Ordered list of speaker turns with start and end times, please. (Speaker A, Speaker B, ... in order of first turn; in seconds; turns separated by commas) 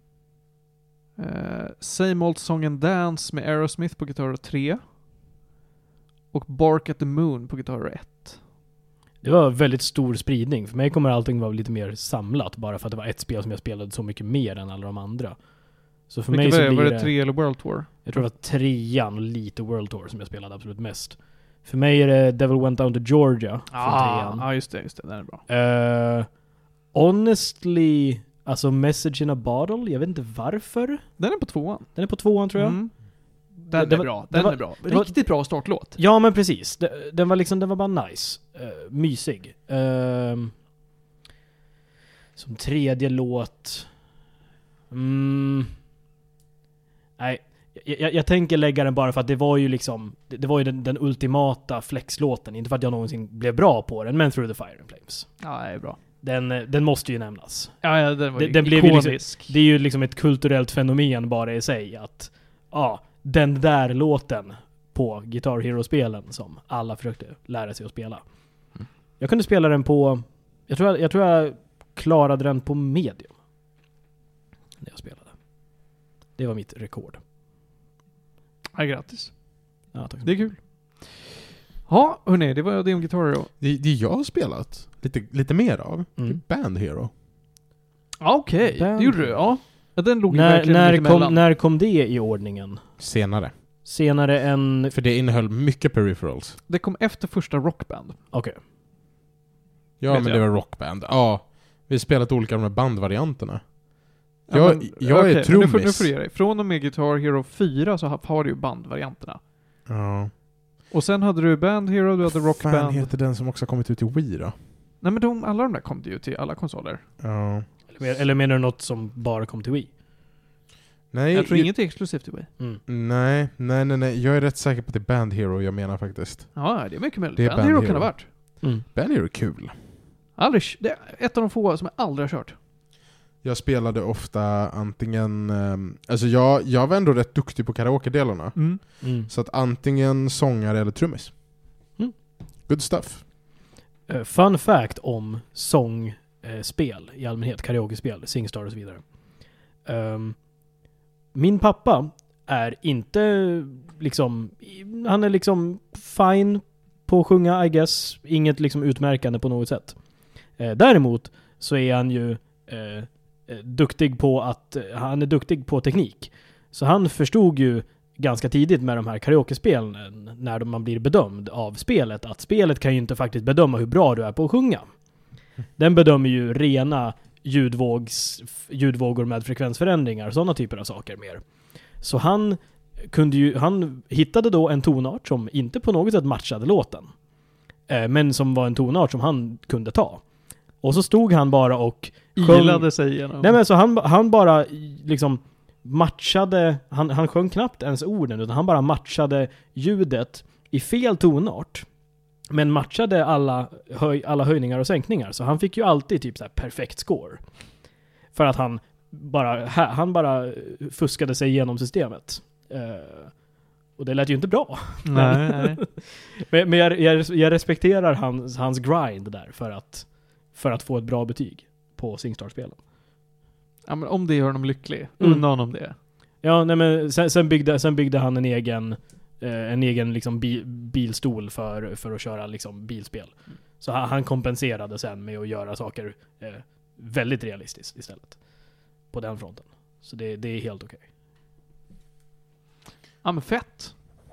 Speaker A: 1.2-4.8, Speaker A: 6.3-8.4, Speaker B: 9.2-15.4, Speaker B: 16.1-17.1, Speaker A: 16.3-18.2, Speaker B: 18.0-24.4, Speaker A: 23.7-25.4, Speaker B: 25.5-26.3, Speaker B: 26.9-31.0, Speaker A: 31.2-31.9, Speaker B: 31.9-32.8, Speaker A: 32.5-32.9, Speaker A: 33.6-36.0, Speaker B: 33.7-35.2, Speaker B: 36.0-40.5, Speaker B: 42.4-43.9, Speaker B: 44.9-45.7, Speaker B: 47.2-55.3, Speaker A: 55.4-56.0, Speaker B: 56.2-57.8, Speaker A: 57.8-59.5, Speaker B: 58.3-68.2, Speaker B: 69.2-73.3, Speaker B: 74.8-75.3, Speaker B: 76.4-77.2, Speaker A: 78.7-79.3, Speaker B: 79.9-80.4, Speaker A: 80.2-81.3, Speaker A: 81.9-83.5, Speaker C: 83.6-87.1, Speaker A: 88.2-91.4, Speaker B: 88.7-89.4, Speaker B: 90.3-92.8, Speaker C: 93.0-93.5, Speaker B: 93.8-94.9, Speaker C: 94.9-96.6, Speaker A: 96.7-98.2, Speaker B: 98.3-98.6, Speaker C: 100.0-103.7, Speaker A: 100.1-100.4, Speaker A: 104.5-109.4, Speaker C: 104.5-106.1, Speaker C: 109.9-110.3, Speaker A: 110.9-113.1, Speaker C: 112.6-114.5, Speaker A: 115.0-117.0, Speaker C: 117.2-117.7, Speaker B: 117.9-119.9, Speaker C: 121.1-121.7, Speaker A: 121.3-122.5, Speaker C: 122.9-126.5, Speaker A: 126.5-128.3, Speaker C: 127.4-128.1, Speaker C: 128.9-129.7, Speaker A: 130.4-132.6, Speaker C: 133.4-141.3, Speaker A: 138.6-138.8, Speaker B: 139.0-139.3, Speaker C: 142.7-143.2, Speaker B: 144.1-149.0, Speaker B: 149.8-150.3, Speaker B: 151.3-159.9, Speaker B: 160.6-174.9, Speaker B: 175.8-181.4, Speaker B: 182.0-187.1, Speaker B: 187.9-190.2, Speaker B: 190.8-192.9, Speaker A: 192.3-193.5, Speaker B: 193.4-201.8, Speaker B: 202.5-207.4, Speaker B: 208.3-213.3, Speaker B: 214.0-222.8, Speaker A: 215.0-215.8, Speaker A: 223.9-225.9, Speaker B: 226.4-238.3, Speaker B: 239.1-241.0, Speaker A: 243.2-243.9